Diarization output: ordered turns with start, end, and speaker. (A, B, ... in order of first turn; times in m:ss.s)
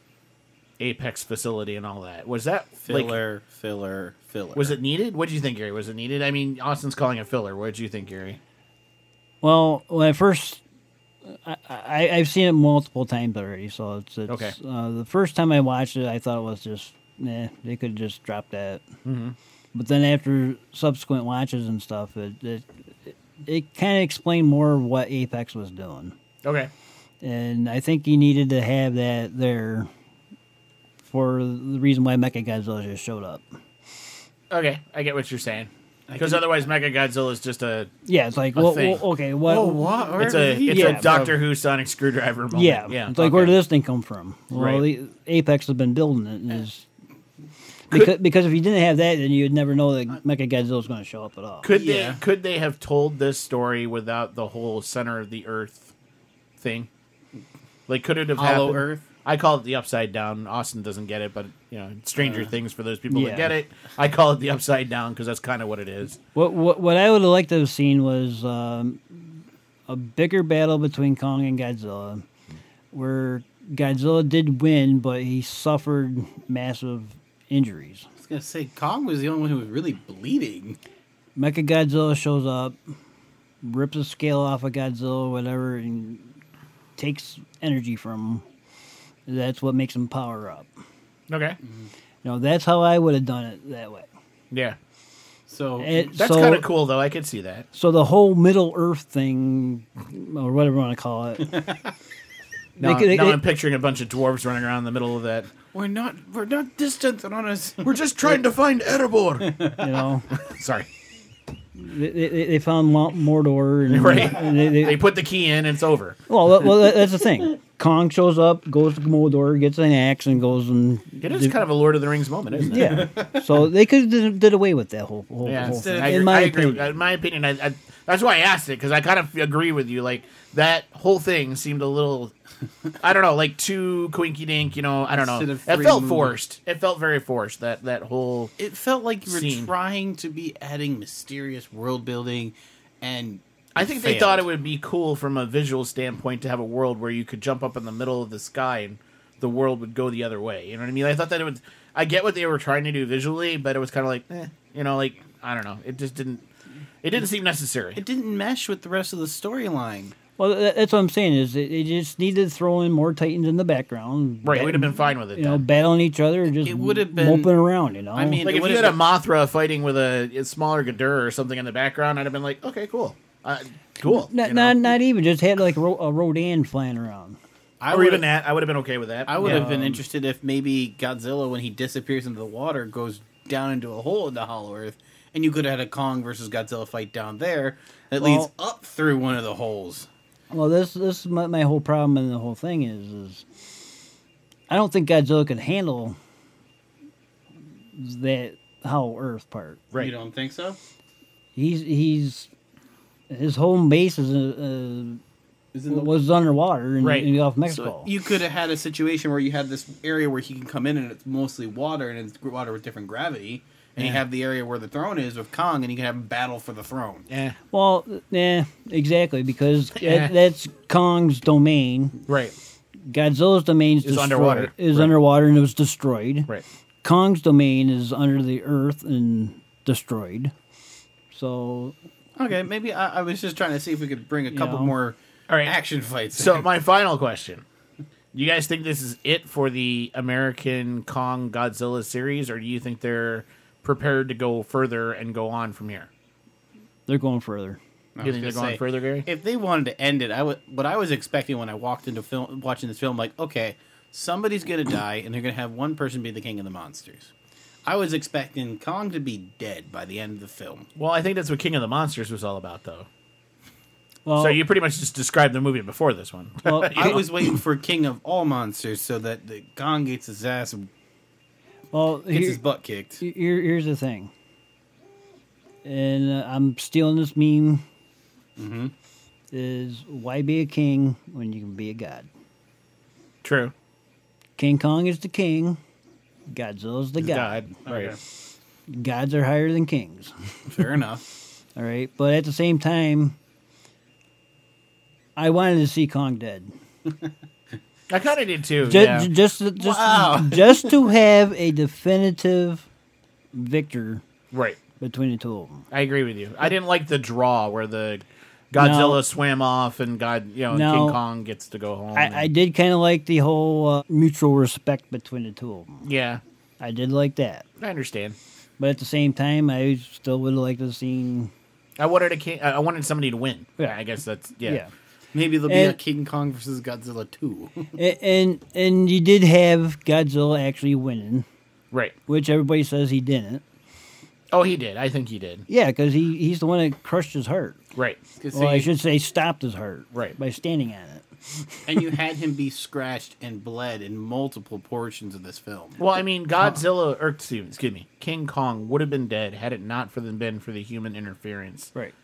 0:00.8-0:03.2 A
0:02.8-0:04.8 B
0:04.6-0:08.4 A
0:09.4-0:10.6 C
0:11.3-0:18.8 C
0:14.3-0:14.6 A
0:19.0-0:19.4 A
0:19.8-0:26.2 C
0:26.4-0:26.7 A
0:27.2-0:29.9 C
0:31.1-0:33.4 C
0:34.5-0:37.9 A
0:36.1-0:36.6 B
0:38.0-0:40.1 C
0:38.6-0:39.0 A
0:39.4-0:41.4 B
0:40.2-0:43.6 A
0:40.6-0:41.1 C
0:42.5-0:46.9 C
0:44.5-0:44.8 A
0:47.9-0:48.2 A
0:47.9-0:51.7 C
0:51.6-0:55.9 A
0:51.7-0:52.2 B
0:56.6-0:56.9 A
0:57.9-1:06.2 A
0:58.4-0:59.0 B
1:02.2-1:02.5 B
1:03.1-1:03.5 C
1:06.4-1:09.3 C
1:09.9-1:12.2 C
1:12.9-1:18.1 C
1:18.2-1:20.8 B
1:21.4-1:22.8 C
1:23.6-1:26.3 C
1:27.0-1:28.4 C
1:29.3-1:30.7 C
1:31.3-1:31.6 A
1:32.2-1:34.1 C
1:34.5-1:34.8 A
1:35.5-1:36.0 B
1:35.8-1:36.7 C
1:36.1-1:37.7 A
1:37.7-1:41.7 C
1:42.8-1:45.5 A
1:42.8-1:43.4 C
1:45.7-1:48.0 B
1:47.8-1:49.7 A
1:49.4-1:49.8 B
1:49.8-1:50.3 C
1:50.4-1:50.9 A
1:51.8-1:55.0 C
1:53.9-1:56.2 A
1:56.3-2:01.6 C
2:01.2-2:03.1 A
2:02.6-2:06.8 C
2:05.4-2:12.3 A
2:05.6-2:06.8 B
2:13.0-2:18.5 A
2:15.1-2:16.4 B
2:18.6-2:24.5 B
2:19.3-2:19.7 A
2:23.8-2:36.4 A
2:37.0-2:38.0 A
2:38.0-2:40.2 B
2:40.4-2:48.4 C
2:44.4-2:45.6 A
2:46.5-2:47.5 B
2:48.2-2:49.0 B
2:48.4-2:54.8 A
2:54.0-2:57.4 C
2:57.8-2:58.3 B
2:57.9-2:59.7 A
2:59.3-3:10.1 B
2:59.4-3:00.0 C
3:08.2-3:08.5 C
3:10.5-3:13.4 C
3:14.7-3:16.2 C
3:17.9-3:19.8 C
3:20.0-3:20.8 B
3:21.6-3:22.5 C
3:23.3-3:25.2 C
3:25.7-3:26.1 B
3:25.9-3:28.1 C
3:27.0-3:27.9 A
3:28.0-3:37.3 B
3:37.3-3:37.6 A
3:37.7-3:42.2 C
3:40.0-3:40.3 A
3:42.3-3:42.6 A
3:43.1-3:46.5 C
3:44.0-3:45.2 A
3:47.0-3:50.5 C
3:51.3-3:52.0 C
3:52.4-3:56.6 B
3:54.5-3:54.9 C
3:55.5-3:55.8 A
3:56.4-3:57.6 A
3:58.3-4:06.1 A
4:07.1-4:07.8 C
4:08.2-4:17.3 B
4:08.2-4:09.3 A
4:17.9-4:20.9 B
4:21.0-4:23.1 A
4:24.2-4:24.6 C
4:24.4-4:27.6 A
4:26.6-4:27.2 C
4:26.9-4:30.9 B
4:31.9-4:32.6 C
4:32.3-4:33.2 B
4:33.2-4:34.3 C
4:35.8-4:37.8 C
4:38.6-4:38.9 B
4:39.5-4:42.3 C
4:43.4-4:43.7 A
4:44.6-4:45.8 C
4:46.5-4:47.7 C
4:47.2-4:48.2 A
4:47.9-4:48.2 B
4:48.9-4:50.9 C
4:50.7-4:51.2 B
4:51.8-4:53.4 C
4:55.4-4:56.7 C
4:58.1-4:59.3 A
4:58.8-5:02.9 C
4:59.8-5:01.0 B
5:03.5-5:04.2 C
5:04.5-5:04.8 A
5:05.0-5:05.9 C
5:05.9-5:12.5 A
5:08.8-5:09.2 C
5:10.7-5:11.2 C
5:12.1-5:16.1 C
5:16.0-5:16.4 A
5:16.8-5:17.7 C
5:17.8-5:18.4 A
5:18.8-5:21.5 C
5:22.0-5:24.8 A
5:24.6-5:24.9 C
5:25.3-5:27.9 B
5:25.7-5:26.0 C
5:27.9-5:31.5 C
5:32.3-5:33.6 C
5:34.5-5:35.7 A
5:35.7-5:37.8 C
5:38.0-5:38.2 A
5:38.4-5:38.9 B
5:38.5-5:42.2 C
5:41.9-5:46.0 B
5:46.0-5:51.9 A